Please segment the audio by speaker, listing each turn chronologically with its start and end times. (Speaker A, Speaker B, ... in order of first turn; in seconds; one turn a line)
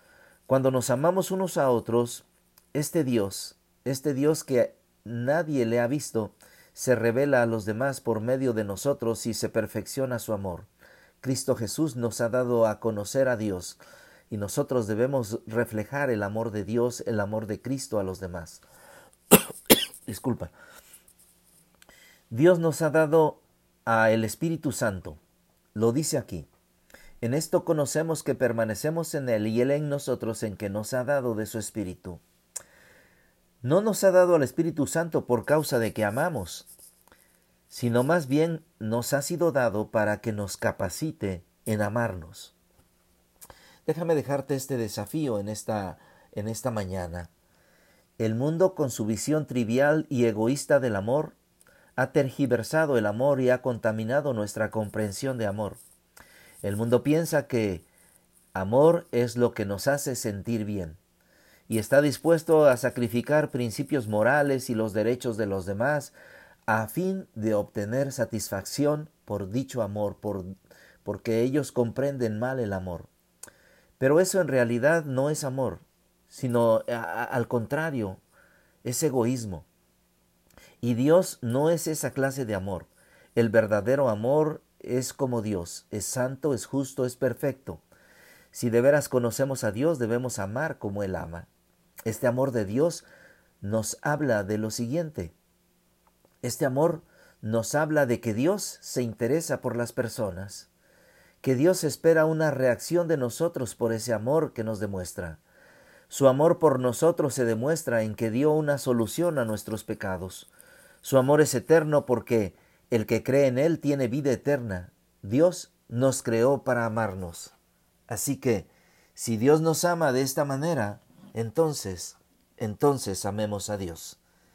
Speaker A: 0.5-10.7
Speaker A: 11.2-13.8
Speaker A: 14.3-18.6
Speaker A: 20.1-20.5
Speaker A: 22.3-25.2
Speaker A: 25.7-26.5
Speaker A: 27.2-32.2
Speaker A: 33.6-36.7
Speaker A: 37.7-42.5
Speaker A: 43.9-47.3
Speaker A: 48.2-51.4
Speaker A: 52.0-55.8
Speaker A: 56.6-57.9
Speaker A: 58.5-61.0
Speaker A: 61.7-66.1
Speaker A: 66.7-70.5
Speaker A: 71.0-73.1
Speaker A: 74.0-78.2
Speaker A: 78.8-79.7
Speaker A: 80.8-87.8
Speaker A: 88.5-91.5
Speaker A: 92.1-93.0
Speaker A: 93.6-95.3
Speaker A: 96.4-100.7
Speaker A: 101.4-105.4
Speaker A: 106.1-110.5
Speaker A: 111.0-117.5
Speaker A: 118.1-124.2